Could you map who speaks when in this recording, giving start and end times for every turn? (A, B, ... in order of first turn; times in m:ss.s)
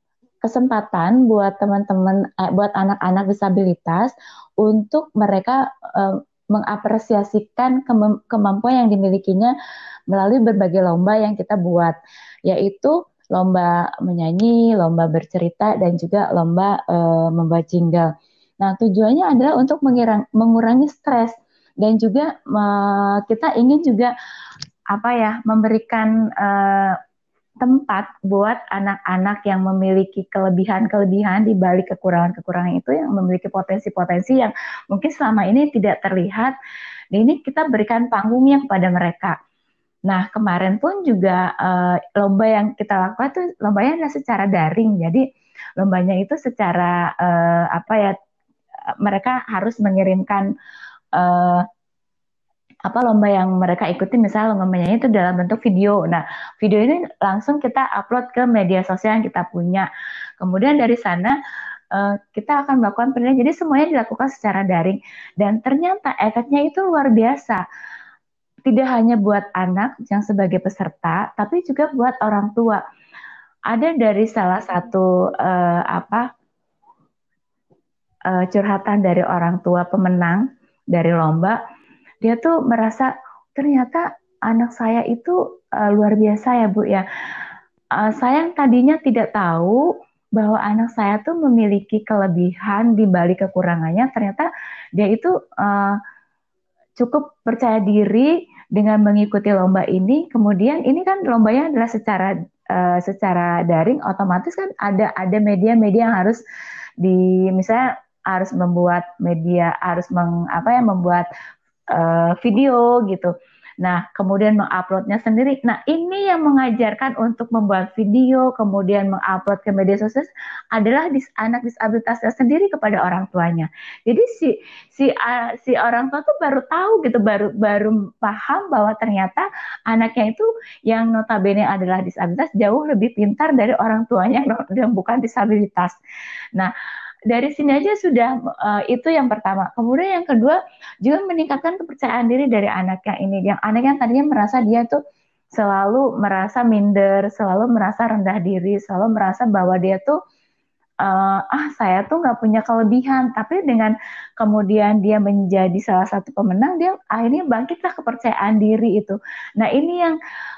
0:00.4-0:09.5 A
0:10.1-0:12.0 A
0:12.5-0:18.1 A
0:18.6-0:24.1 A
0:24.9-0:27.0 A
0:27.6-0:36.5 A
0:37.1-0:39.4 A
0:40.1-0:45.2 A
0:45.8-0:48.1 A
0:49.0-0:50.5 A
0:51.2-0:51.6 A
0:52.9-0:59.9 A
1:00.4-1:01.4 A
1:01.9-1:07.6 A
1:08.7-1:12.8 A
1:13.7-1:16.3 A
1:18.3-1:21.6 A
1:22.2-1:27.0 A
1:28.0-1:29.8 A
1:30.4-1:36.0 A
1:37.0-1:46.4 A
1:47.0-1:51.3 A
1:51.9-2:16.0 A
2:17.3-2:25.0 A
2:25.5-2:30.2 A
2:31.0-2:40.2 A